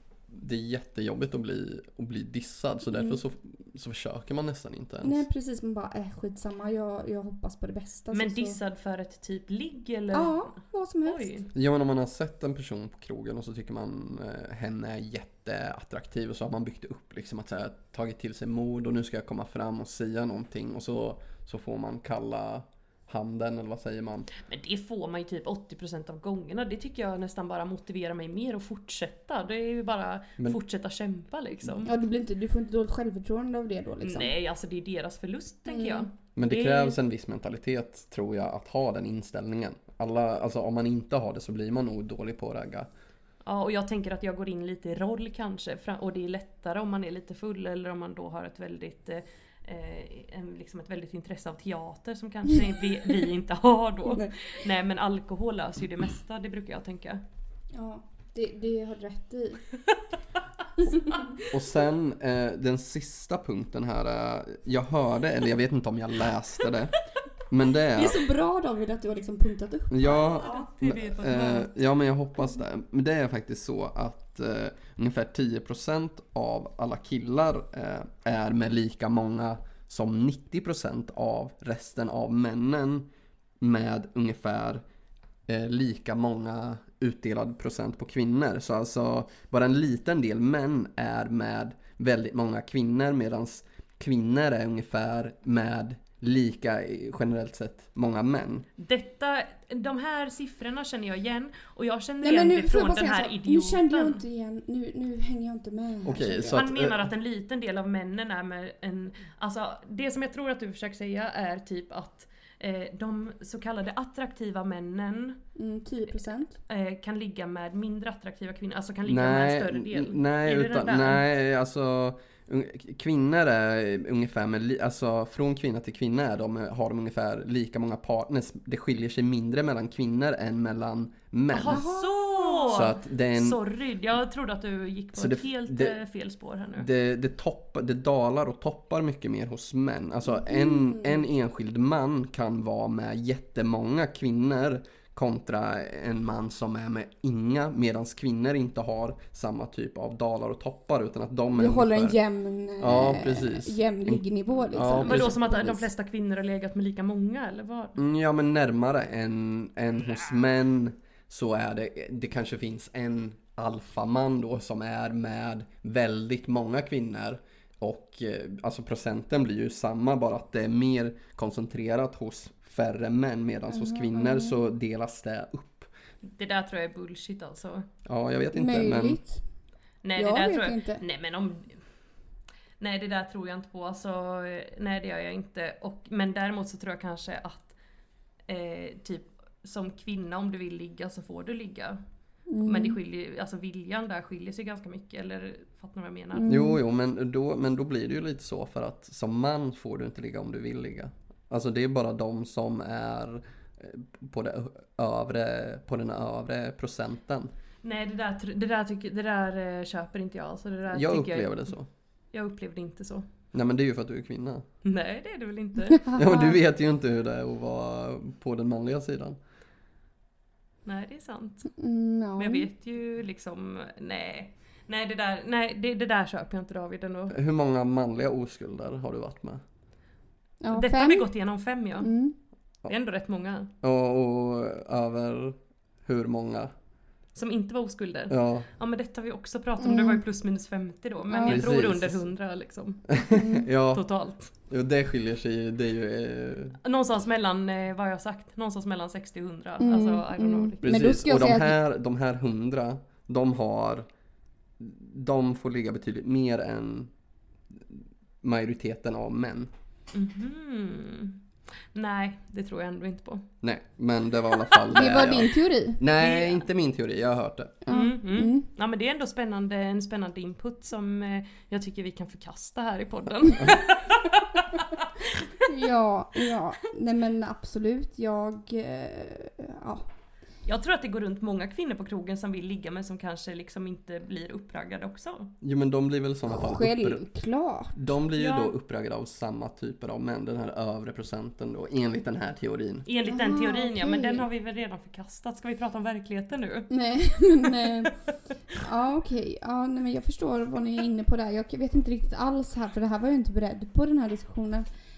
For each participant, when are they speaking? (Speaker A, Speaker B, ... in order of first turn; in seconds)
Speaker A: 0.3-5.2, 11.5-24.3, 36.4-42.9, 61.5-67.0, 67.5-68.2, 69.9-83.1, 83.6-84.8, 85.5-98.7, 106.0-107.0, 119.0-131.8, 132.7-133.6, 135.1-136.0, 136.8-152.2, 152.8-155.4, 157.9-175.9, 178.0-179.2, 196.5-207.5, 210.9-211.9, 213.5-214.6, 216.2-219.4, 227.3-229.6, 233.8-236.7, 238.3-238.7, 241.4-242.2, 243.1-244.0, 244.7-246.8, 250.8-254.1, 254.8-257.1, 257.7-259.7, 263.6-267.8, 285.6-287.2, 287.9-293.1
Speaker B: 2.9-3.2, 5.0-8.6, 10.1-11.3, 31.8-34.3, 35.7-36.1, 57.7-59.6, 60.8-61.3, 67.9-70.7, 102.2-106.6, 115.5-116.6, 131.7-132.8, 140.3-141.2, 151.5-155.8, 173.7-174.6, 178.5-179.4, 180.2-181.0, 192.5-193.0, 196.3-196.8, 216.0-216.6, 221.8-222.7, 230.6-231.3, 232.0-232.3, 239.8-240.2, 241.3-241.6, 243.3-243.6, 249.8-251.8, 264.9-266.0, 267.8-268.7, 275.6-280.0, 286.5-287.9, 293.3-294.4, 296.9-298.1, 298.7-304.9
Speaker C: 8.1-11.5, 24.4-31.9, 34.0-37.0, 43.4-57.2, 70.4-71.7, 98.8-104.2, 106.5-115.4, 116.7-121.2, 131.5-136.9, 154.8-158.0, 176.2-177.8, 180.0-181.8, 182.8-187.7, 188.5-192.0, 192.6-196.5, 207.8-211.7, 212.3-213.2, 214.8-216.1, 220.8-221.7, 222.4-227.3, 230.7-232.1, 232.8-233.7, 237.3-243.3, 243.9-244.5, 246.8-251.1, 260.1-261.4, 261.9-263.5, 266.2-266.6, 267.9-275.3, 280.6-285.5, 288.4-288.7, 293.1-296.9